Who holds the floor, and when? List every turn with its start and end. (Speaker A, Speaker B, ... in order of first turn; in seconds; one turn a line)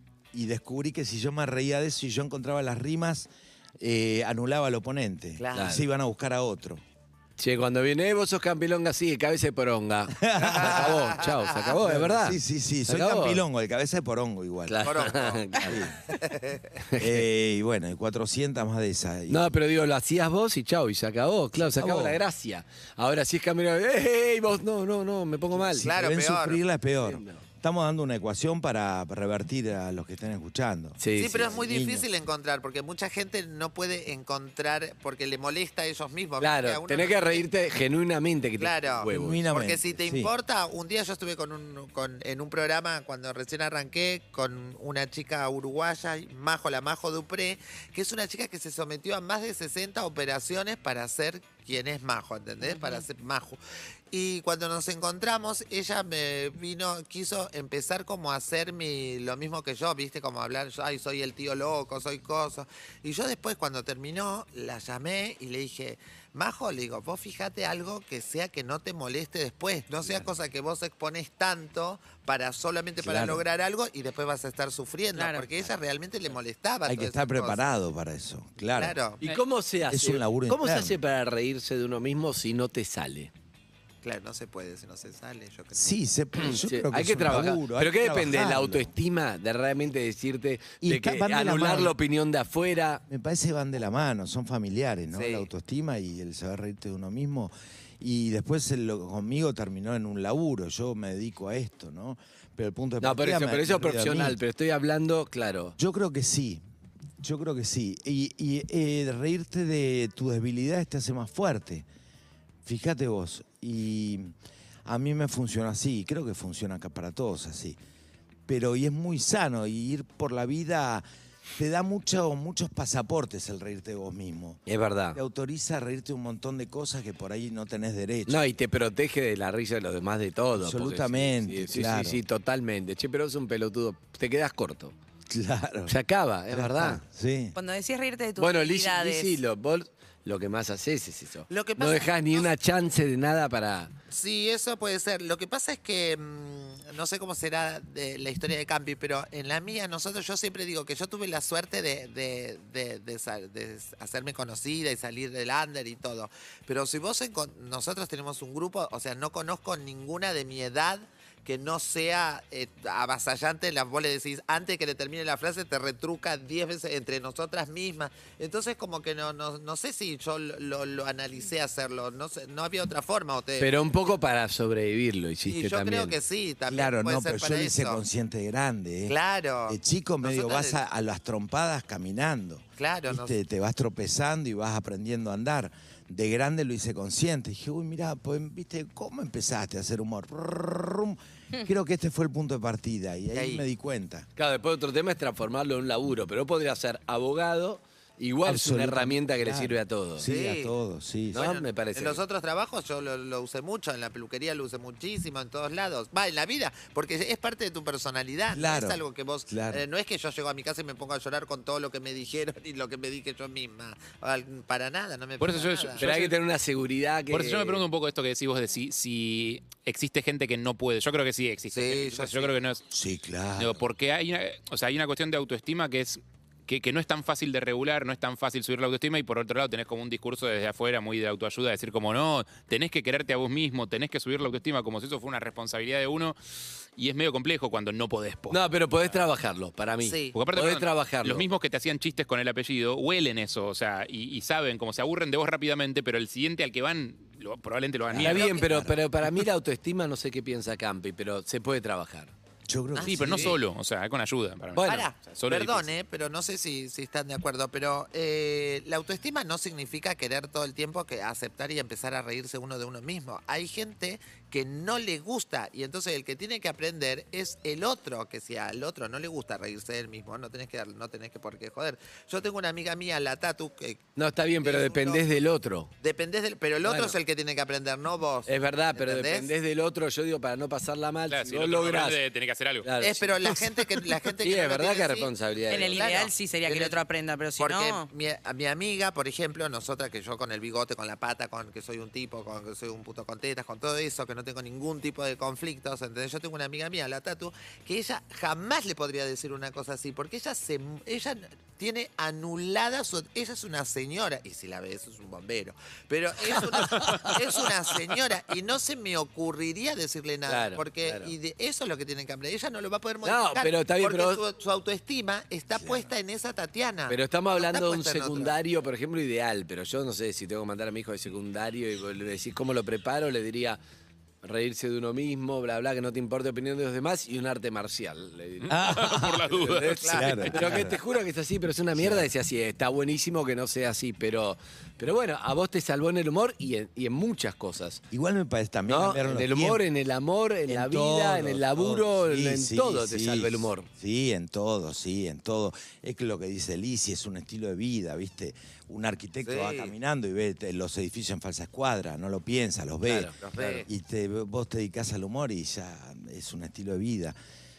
Speaker A: 0.3-6.8
Speaker B: 5.4-5.8
Speaker C: 5.5-5.8
Speaker C: 7.4-13.4
Speaker A: 10.1-11.2
Speaker B: 10.4-11.7
Speaker A: 11.7-16.1
Speaker C: 14.7-15.9
Speaker B: 14.8-15.6
Speaker B: 16.1-16.7
Speaker C: 16.8-17.2
Speaker A: 17.0-19.5
Speaker C: 19.3-25.9
Speaker A: 21.5-22.2
Speaker A: 25.5-32.1
Speaker B: 25.8-26.6
Speaker C: 27.0-27.4
Speaker C: 31.0-31.6
Speaker B: 31.1-37.5
Speaker C: 36.4-39.4
Speaker B: 38.6-53.6
Speaker A: 39.1-40.3
Speaker D: 52.6-53.0
Speaker B: 54.1-77.6
Speaker A: 70.0-70.3
Speaker A: 73.0-73.4
Speaker D: 75.1-75.5
Speaker A: 76.9-79.0
Speaker B: 78.7-79.2
Speaker C: 79.2-83.3
Speaker A: 79.9-81.0
Speaker B: 84.0-85.8
Speaker A: 85.7-88.9
Speaker C: 86.4-93.0
Speaker A: 90.8-92.0
Speaker A: 93.1-104.4
Speaker B: 95.1-95.5
Speaker C: 103.0-105.8
Speaker A: 105.8-106.6
Speaker A: 107.2-111.9
Speaker A: 112.6-114.3
Speaker A: 114.8-117.8
Speaker A: 118.5-121.0
Speaker A: 121.6-124.6
Speaker C: 124.7-125.2
Speaker A: 125.1-128.4
Speaker C: 128.3-134.9
Speaker A: 130.6-132.2
Speaker A: 135.3-135.9
Speaker C: 135.9-137.0
Speaker A: 136.5-137.6
Speaker D: 137.6-139.4
Speaker C: 138.4-143.9
Speaker B: 141.5-142.5
Speaker B: 144.1-173.8
Speaker C: 173.6-176.2
Speaker B: 175.4-178.0
Speaker A: 176.7-194.3
Speaker B: 179.1-180.8
Speaker B: 182.8-183.3
Speaker B: 193.3-193.7
Speaker C: 194.3-200.3
Speaker A: 198.4-201.5
Speaker B: 200.2-200.7
Speaker B: 201.3-216.1
Speaker C: 201.3-202.2
Speaker A: 208.5-209.8
Speaker E: 215.4-216.3
Speaker C: 216.0-217.8
Speaker E: 217.3-222.8
Speaker B: 221.7-222.6
Speaker A: 222.9-223.8
Speaker E: 223.6-236.3
Speaker E: 237.0-238.6
Speaker C: 238.5-241.5
Speaker B: 240.0-240.4
Speaker E: 240.3-248.5
Speaker A: 248.1-249.0
Speaker C: 248.2-252.3
Speaker B: 248.3-248.7
Speaker A: 252.7-253.6
Speaker B: 252.9-253.6
Speaker E: 253.0-255.9
Speaker C: 254.7-255.1
Speaker B: 254.8-274.1
Speaker C: 274.2-275.9
Speaker B: 274.6-275.2
Speaker B: 276.0-279.5
Speaker C: 276.8-277.2
Speaker C: 278.4-282.2
Speaker E: 281.3-282.9
Speaker C: 282.8-283.6
Speaker B: 283.0-286.9
Speaker C: 284.4-286.1
Speaker D: 285.7-288.1
Speaker B: 287.6-318.6
Speaker C: 306.6-307.7
Speaker C: 310.5-311.3
Speaker C: 313.2-314.4
Speaker A: 315.8-316.1
Speaker C: 317.1-323.8
Speaker C: 324.4-338.0
Speaker E: 328.6-330.6
Speaker A: 328.7-331.0
Speaker B: 330.0-330.6
Speaker A: 331.9-332.3
Speaker A: 338.1-339.8
Speaker C: 338.9-343.9
Speaker A: 340.7-353.3
Speaker B: 349.4-349.9
Speaker C: 353.0-353.9
Speaker B: 353.4-353.9
Speaker A: 353.9-357.4